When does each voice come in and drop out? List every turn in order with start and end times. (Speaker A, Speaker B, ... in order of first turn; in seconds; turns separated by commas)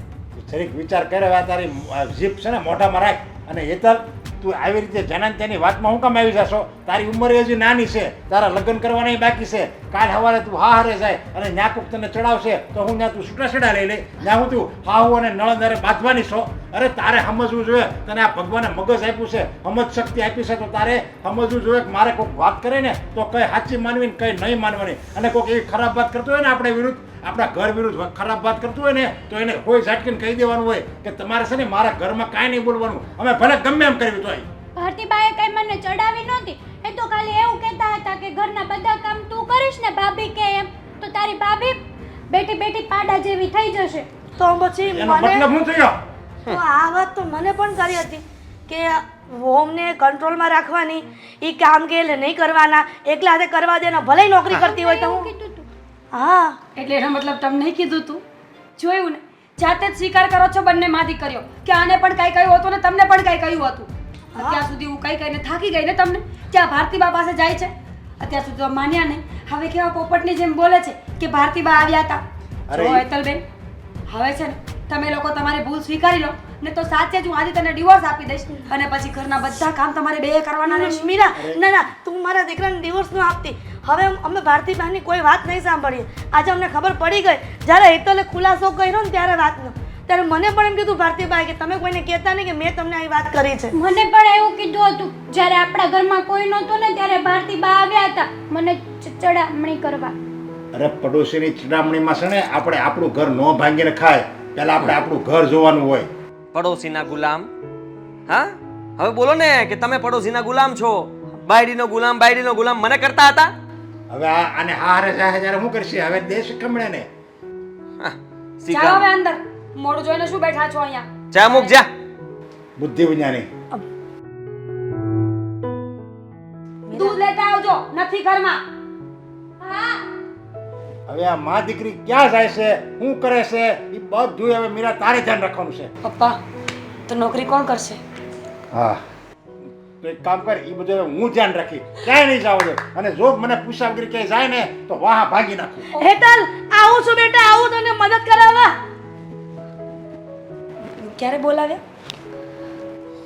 Speaker A: 0.3-34.5, Speaker B: 34.7-41.8, Speaker B: 42.3-44.1, Speaker C: 44.4-45.5, Speaker A: 44.8-46.0, Speaker C: 46.5-55.3, Speaker B: 54.5-55.7, Speaker C: 56.1-56.6, Speaker D: 56.8-58.2, Speaker D: 58.8-73.4, Speaker C: 64.3-64.6, Speaker A: 72.7-73.1, Speaker D: 74.1-81.1, Speaker C: 80.6-93.7, Speaker A: 81.3-81.6, Speaker B: 93.7-100.1, Speaker A: 100.7-106.1, Speaker E: 106.5-107.5, Speaker E: 108.3-113.5, Speaker A: 114.1-117.1, Speaker E: 118.0-119.0, Speaker D: 118.7-121.8, Speaker E: 121.3-121.9, Speaker A: 122.8-123.5, Speaker D: 126.9-128.6, Speaker C: 126.9-127.2, Speaker B: 129.6-130.0, Speaker A: 131.1-135.9, Speaker D: 136.0-136.4, Speaker D: 137.1-138.0, Speaker A: 138.7-139.0, Speaker A: 140.0-145.9, Speaker C: 146.0-148.8, Speaker D: 151.0-151.8